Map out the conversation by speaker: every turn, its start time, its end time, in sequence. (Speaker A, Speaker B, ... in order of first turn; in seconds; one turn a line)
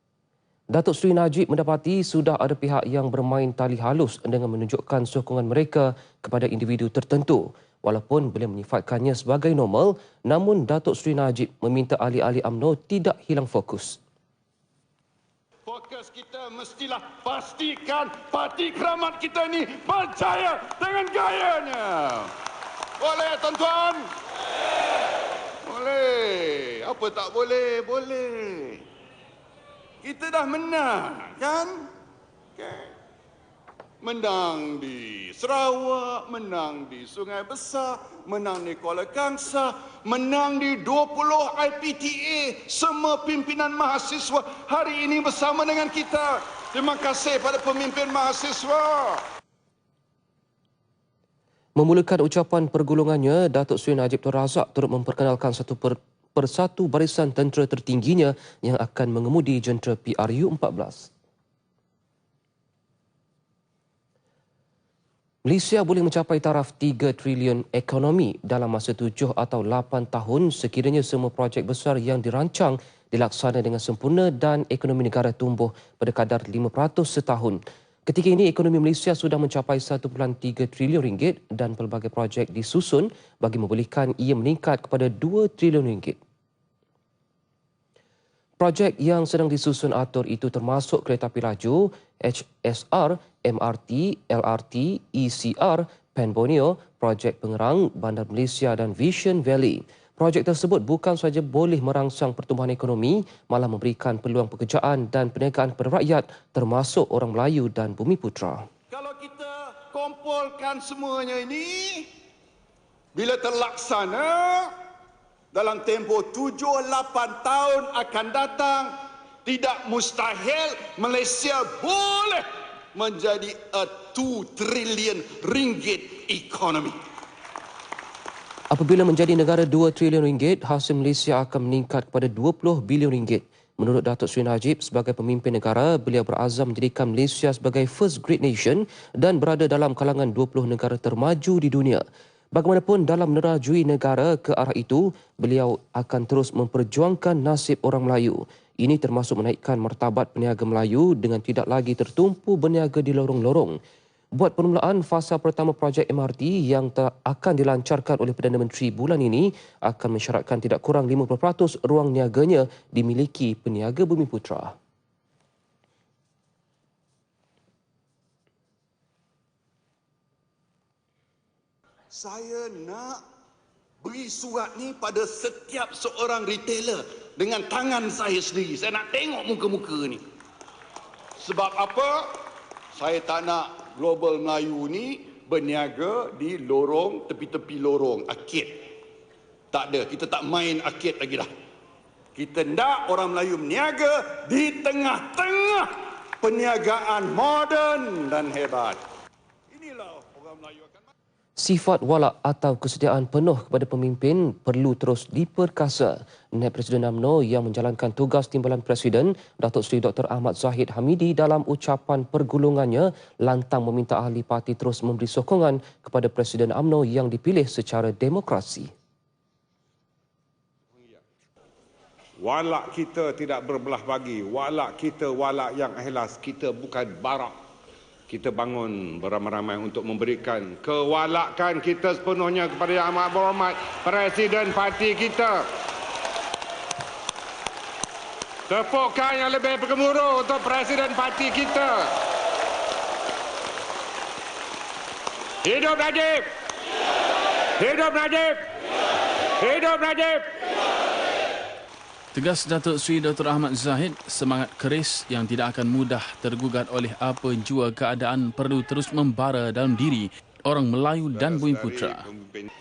Speaker A: 0.7-14.0
Speaker B: 15.7-22.3
Speaker B: 23.0-24.1
Speaker B: 25.6-28.8
Speaker B: 30.0-31.9
Speaker B: 32.6-32.9
Speaker B: 34.0-49.2
Speaker A: 51.8-61.1
Speaker A: 65.5-86.2
Speaker A: 88.6-108.7
Speaker B: 108.9-112.1
Speaker B: 113.1-114.7
Speaker B: 115.5-127.0
Speaker A: 128.7-142.0
Speaker A: 142.6-153.8
Speaker A: 154.4-164.8
Speaker B: 172.1-173.2
Speaker B: 174.0-180.2
Speaker B: 181.4-182.4
Speaker B: 182.9-188.9
Speaker B: 189.7-191.5
Speaker B: 192.4-199.0
Speaker B: 199.7-201.1
Speaker A: 201.6-218.9
Speaker B: 222.4-227.5
Speaker B: 228.3-231.2
Speaker C: 230.6-235.5
Speaker C: 238.8-241.9
Speaker C: 245.7-246.4
Speaker B: 247.8-248.2
Speaker C: 247.9-248.4
Speaker C: 249.7-250.3
Speaker D: 252.3-262.3
Speaker B: 261.3-262.7